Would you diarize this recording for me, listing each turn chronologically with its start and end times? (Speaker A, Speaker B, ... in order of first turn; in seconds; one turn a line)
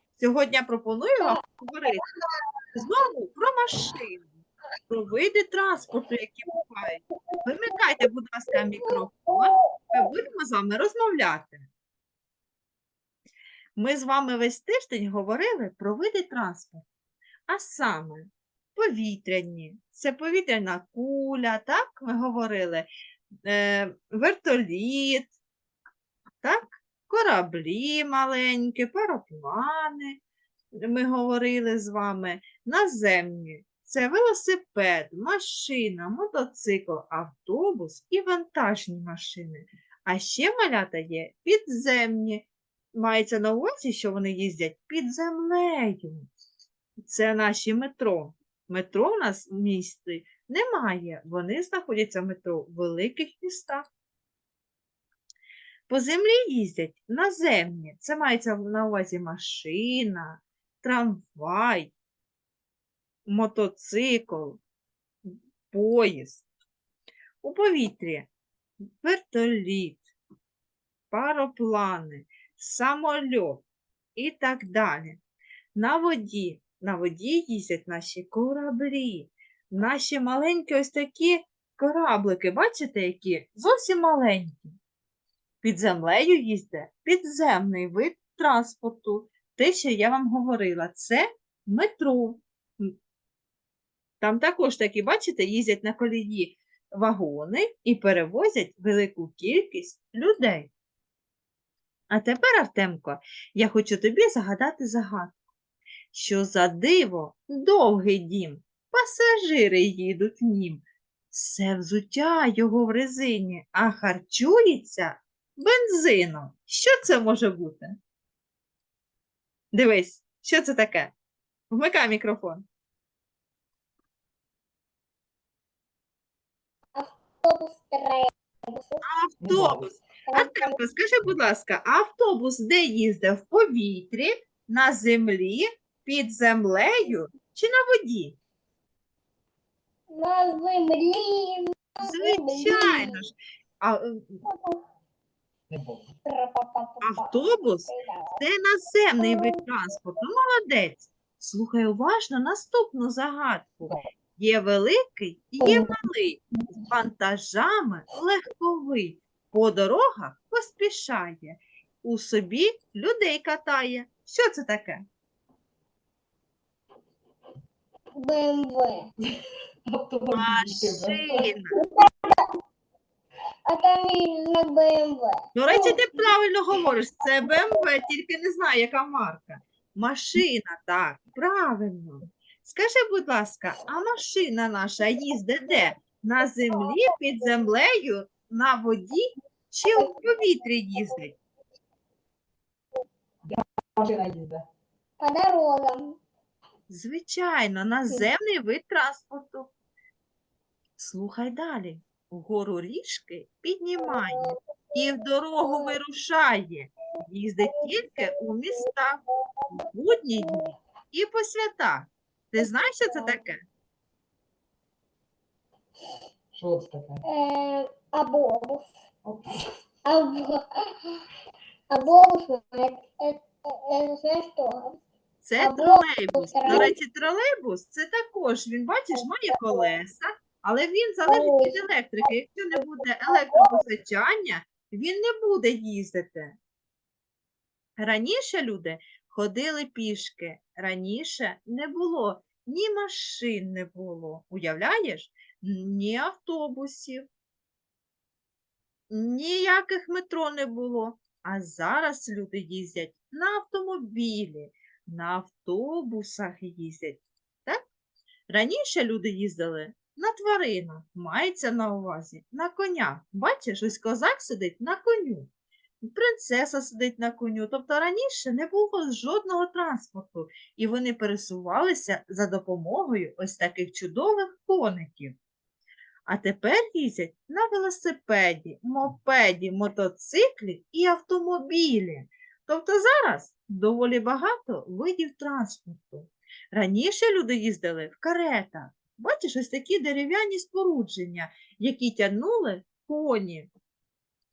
Speaker A: 0.2-2.0
Speaker A: 2.7-11.7
Speaker B: 8.7-10.0
Speaker A: 13.8-16.9
Speaker A: 17.5-22.9
Speaker A: 23.5-25.3
Speaker A: 26.4-30.2
Speaker A: 30.8-46.3
Speaker A: 47.0-53.9
Speaker A: 55.9-61.9
Speaker A: 63.3-64.6
Speaker A: 65.2-66.5
Speaker A: 67.4-68.3
Speaker A: 69.0-70.1
Speaker A: 71.1-73.6
Speaker A: 74.2-75.2
Speaker A: 75.7-84.8
Speaker A: 85.6-92.9
Speaker A: 94.2-100.7
Speaker A: 102.1-105.3
Speaker A: 106.1-117.9
Speaker A: 119.7-121.1
Speaker A: 121.7-122.6
Speaker B: 126.9-129.0
Speaker A: 129.0-138.4
Speaker C: 129.4-129.8
Speaker B: 130.2-130.8
Speaker B: 140.1-143.2
Speaker A: 142.0-144.4
Speaker B: 144.4-144.8
Speaker C: 145.7-146.0
Speaker B: 146.2-148.4
Speaker A: 147.0-165.0
Speaker B: 149.2-149.6
Speaker B: 155.6-155.9
Speaker B: 168.1-169.1
Speaker C: 169.9-171.5
Speaker A: 170.3-171.7
Speaker B: 171.7-172.4
Speaker B: 173.7-176.1
Speaker A: 175.5-191.3
Speaker B: 189.8-190.2
Speaker C: 193.4-194.6
Speaker B: 195.2-196.2
Speaker A: 196.9-199.7
Speaker A: 201.0-209.2
Speaker B: 204.0-205.0
Speaker B: 205.6-206.0
Speaker B: 207.6-208.2
Speaker A: 209.9-213.6
Speaker B: 210.4-210.7
Speaker B: 212.8-213.3
Speaker C: 216.5-217.2
Speaker B: 217.2-218.9
Speaker C: 219.2-219.7
Speaker B: 220.0-221.2
Speaker B: 221.9-225.0
Speaker A: 225.4-236.6
Speaker B: 225.6-226.9
Speaker B: 229.1-229.9
Speaker B: 231.3-231.9
Speaker B: 232.7-233.8
Speaker A: 238.0-247.2
Speaker A: 249.1-257.8
Speaker A: 258.5-265.5
Speaker A: 266.0-275.4
Speaker A: 276.3-293.7